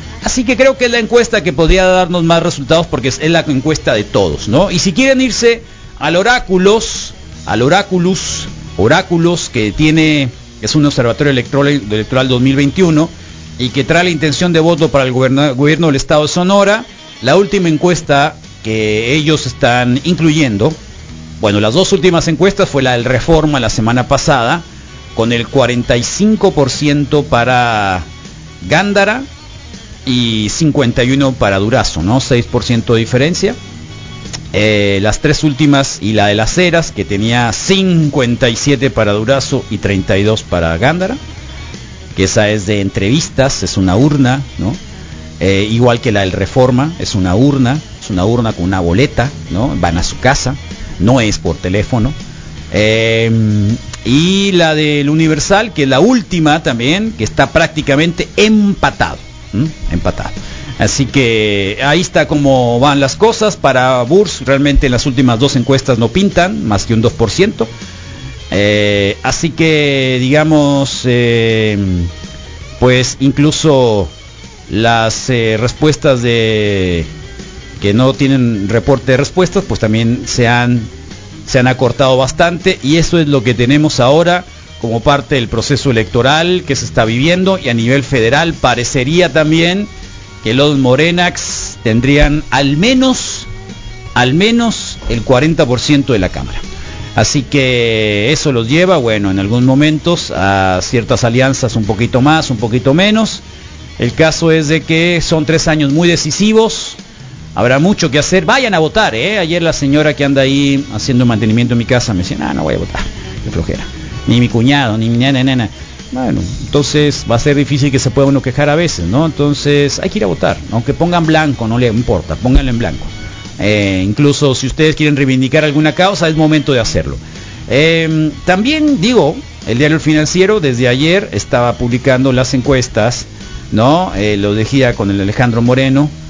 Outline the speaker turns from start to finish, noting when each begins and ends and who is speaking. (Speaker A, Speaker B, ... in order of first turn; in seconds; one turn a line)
Speaker A: 0.2-20.8
Speaker A: 21.4-28.0
Speaker A: 28.6-29.2
Speaker A: 30.1-33.5
Speaker A: 34.5-41.2
Speaker A: 42.1-44.8
Speaker A: 45.4-52.1
Speaker A: 52.7-67.7
Speaker A: 68.5-72.1
Speaker A: 72.8-74.1
Speaker A: 74.7-77.1
Speaker A: 77.8-80.9
Speaker A: 81.5-89.9
Speaker A: 90.4-93.5
Speaker A: 94.1-96.6
Speaker A: 97.2-103.4
Speaker A: 104.0-107.0
Speaker A: 107.5-136.1